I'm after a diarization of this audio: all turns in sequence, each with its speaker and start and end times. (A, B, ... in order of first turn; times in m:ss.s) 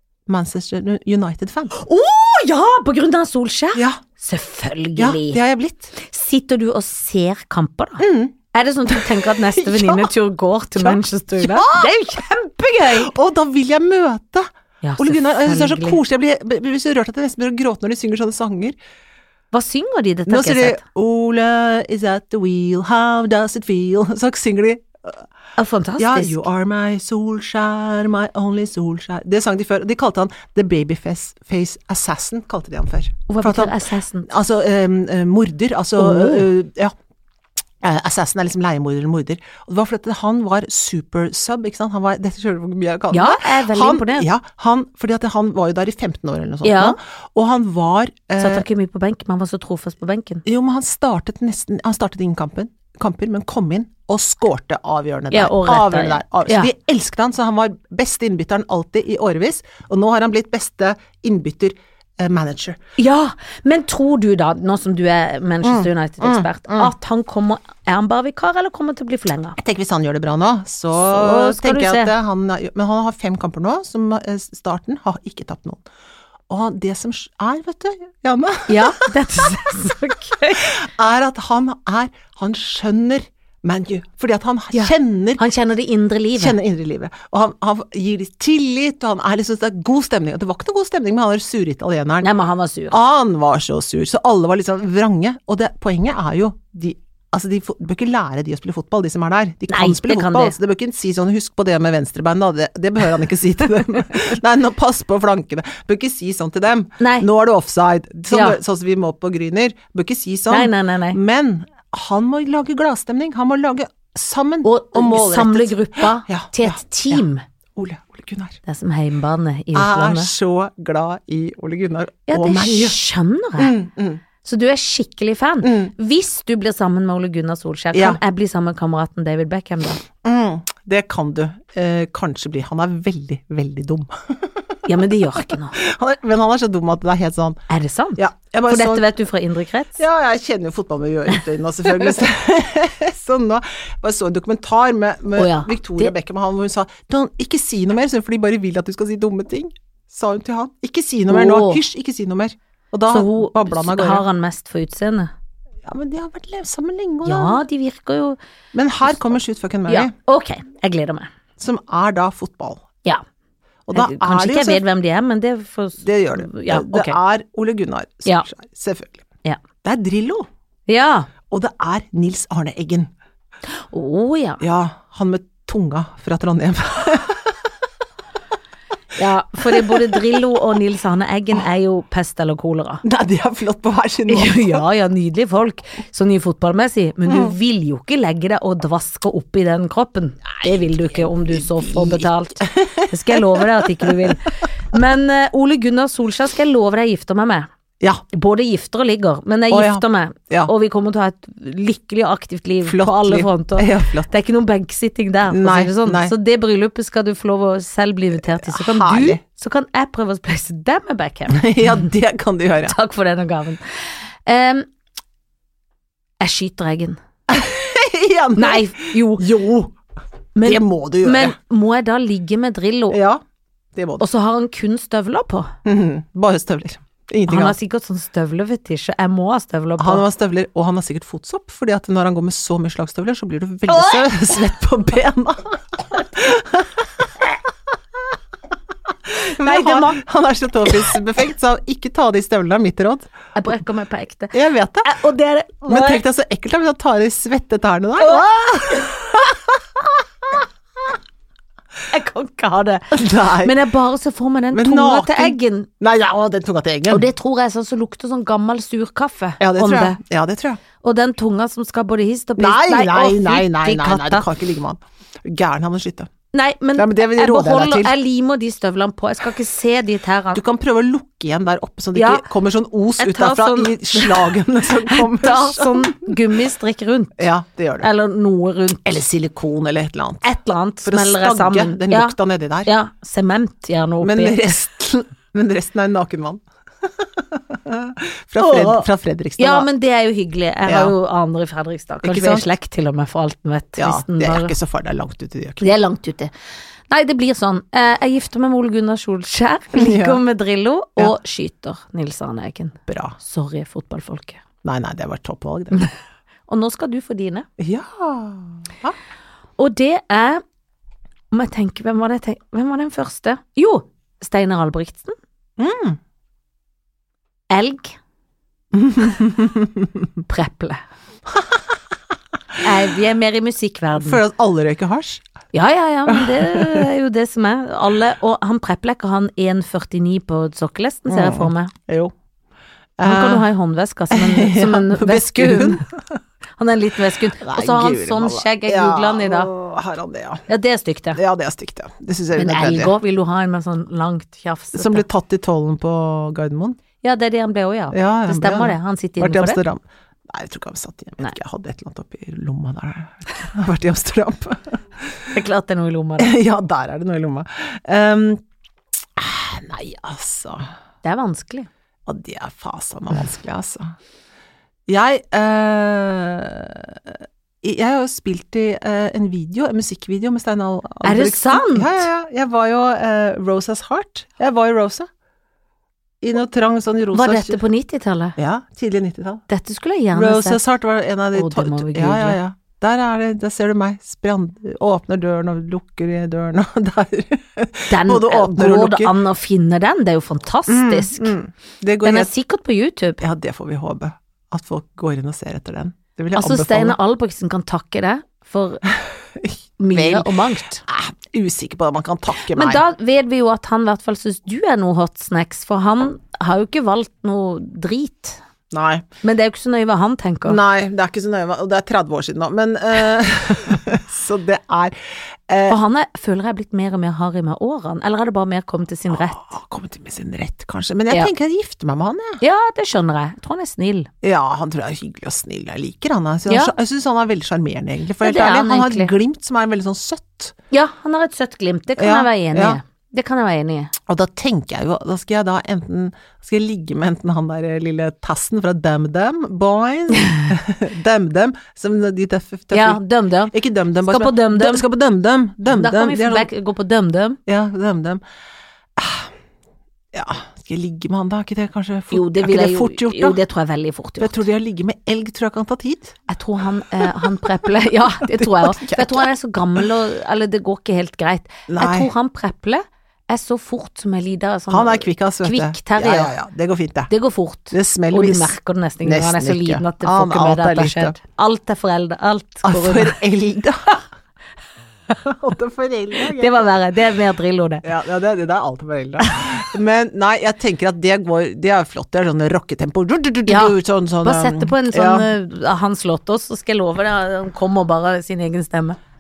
0:00.3-0:01.7 A
0:01.7-0:05.4 B
0:05.0-0:05.9 A
0:06.0-0:13.1 B
0:08.0-0:08.4 A
0:08.9-0:10.1 A
0:10.8-0:12.2 A
0:12.8-0:14.5 A
0:14.8-0:16.0 B
0:15.0-0:18.8 A
0:19.5-0:20.8 B
0:20.3-0:25.2 A
0:25.6-0:26.4 B
0:26.0-0:36.9 A
0:33.3-0:34.3 B
0:36.0-0:36.5 B
0:37.8-0:48.6 A
0:43.1-0:44.3 B
0:46.6-0:47.0 B
0:48.4-0:50.4 B
0:50.4-1:02.8 A
0:55.3-0:56.7 B
1:03.0-1:09.6 B
1:05.6-1:06.9 A
1:09.6-1:15.8 A
1:10.9-1:12.1 B
1:16.5-1:19.0 A
1:18.7-1:20.7 B
1:20.6-1:25.4 A
1:24.7-1:26.6 B
1:26.4-1:32.3 A
1:32.2-1:33.0 B
1:32.9-1:57.2 A
1:39.7-1:40.6 B
1:47.0-1:47.3 B
1:48.3-1:48.6 B
1:50.5-1:51.2 B
1:54.6-1:57.4 B
1:57.8-1:58.6 A
1:58.6-2:00.3 B
1:59.7-2:03.0 A
2:02.3-2:03.7 B
2:03.6-2:04.2 A
2:04.4-2:10.0 B
2:05.6-2:05.9 A
2:07.9-2:08.2 A
2:10.2-2:14.8 A
2:14.8-2:15.8 B
2:15.4-2:17.6 A
2:17.7-2:20.0 B
2:18.2-2:19.1 A
2:20.0-2:34.2 A
2:25.3-2:26.1 B
2:31.3-2:31.8 B
2:33.1-2:35.3 B
2:35.8-2:37.6 A
2:37.2-2:38.4 B
2:38.7-2:40.1 A
2:39.9-2:41.3 B
2:41.6-2:42.8 A
2:43.9-2:44.8 A
2:43.9-2:47.2 B
2:46.0-2:49.2 A
2:49.8-2:50.5 A
2:50.9-2:51.3 B
2:51.5-2:53.1 A
2:53.9-2:54.6 B
2:54.6-2:57.6 A
2:59.2-3:03.0 B
2:59.6-3:00.4 A
3:03.0-3:04.9 A
3:04.3-3:17.7 B
3:07.3-3:07.6 A
3:10.6-3:14.4 A
3:18.3-3:32.1 B
3:19.7-3:20.7 A
3:22.8-3:24.3 A
3:25.5-3:26.3 A
3:28.4-3:29.4 A
3:31.5-3:33.0 A
3:32.8-3:34.9 B
3:36.4-3:37.2 B
3:37.5-3:39.9 A
3:38.6-3:39.5 B
3:40.6-3:43.2 B
3:40.6-3:41.6 A
3:43.1-3:43.4 A
3:44.0-3:44.2 A
3:44.2-3:45.7 B
3:45.8-3:47.8 A
3:47.5-3:50.2 B
3:50.0-3:57.2 A
3:53.9-3:54.7 B
3:59.4-4:00.2 B
3:59.4-4:03.3 A
4:00.8-4:01.2 B
4:03.6-4:06.2 B
4:04.5-4:05.1 A
4:05.9-4:09.6 A
4:08.2-4:09.4 B
4:12.1-4:15.9 B
4:13.1-4:13.8 A
4:14.7-4:17.3 A
4:17.1-4:20.2 B
4:19.6-4:20.8 A
4:21.0-4:24.5 B
4:22.6-4:26.3 A
4:26.5-4:30.6 B
4:27.0-4:28.2 A
4:30.5-4:36.4 A
4:32.2-4:32.5 B
4:33.2-4:37.5 B
4:37.4-4:38.1 A
4:38.0-4:39.1 B
4:39.1-4:40.5 A
4:40.4-4:44.8 B
4:41.0-4:42.9 A
4:44.2-4:46.6 A
4:47.2-4:49.9 A
4:48.6-4:49.1 B
4:49.6-4:54.7 B
4:50.8-4:51.1 A
4:52.2-4:52.7 A
4:54.0-4:56.0 A
4:55.8-4:56.5 B
4:57.1-5:04.6 B
4:59.9-5:00.4 A
5:03.1-5:03.4 A
5:04.8-5:06.1 A
5:06.7-5:07.7 B
5:07.8-5:09.2 A
5:09.8-5:10.6 B
5:11.5-5:15.3 B
5:15.8-5:16.2 A
5:17.7-5:18.2 B
5:18.9-5:20.1 A
5:20.5-5:21.0 B
5:22.8-5:24.4 B
5:24.2-5:25.4 A
5:25.7-5:31.9 B
5:26.3-5:27.1 A
5:31.3-5:32.3 A
5:33.2-5:33.7 A
5:33.2-5:36.0 B
5:34.3-5:36.4 A
5:36.8-5:39.7 B
5:37.6-5:40.6 A
5:40.7-5:41.4 B
5:41.4-5:43.1 A
5:42.5-5:45.3 B
5:44.9-5:47.0 A
5:47.2-5:49.8 B
5:48.1-5:55.5 A
5:55.5-5:56.5 B
5:56.4-5:58.6 A
5:59.4-6:00.8 A
6:01.2-6:01.9 B
6:02.3-6:04.2 A
6:05.1-6:15.3 A
6:11.2-6:12.3 B
6:16.4-6:17.8 A
6:17.3-6:18.6 B
6:18.6-6:19.6 A
6:19.7-6:20.8 B
6:20.3-6:29.4 A
6:21.5-6:22.6 B
6:28.1-6:31.6 B
6:30.9-6:32.5 A
6:32.2-6:33.4 B
6:33.4-6:37.2 A
6:36.6-6:39.0 B
6:39.6-6:43.0 A
6:40.0-6:41.0 B
6:42.5-6:48.6 B
6:48.9-6:49.2 A
6:49.4-6:50.8 B
6:50.7-6:56.0 A
6:55.9-6:59.7 B
6:59.3-7:02.6 A
7:02.6-7:04.3 B
7:04.4-7:10.7 A
7:06.7-7:06.9 B
7:08.4-7:09.3 B
7:10.9-7:14.1 B
7:12.2-7:13.0 A
7:14.3-7:23.2 A
7:22.9-7:25.1 B
7:23.7-7:26.7 A
7:25.9-7:27.6 B
7:27.7-7:28.4 A
7:29.2-7:29.5 A
7:30.3-7:33.6 A
7:32.3-7:34.6 B
7:34.4-7:36.4 A
7:36.5-7:46.5 B
7:37.2-7:40.1 A
7:41.9-7:42.3 A
7:44.9-7:47.3 A
7:47.3-7:53.4 B
7:47.9-7:51.4 A
7:52.8-7:54.2 A
7:55.4-7:56.9 A
7:56.5-7:58.1 B
7:58.0-8:05.5 A
8:03.7-8:09.2 B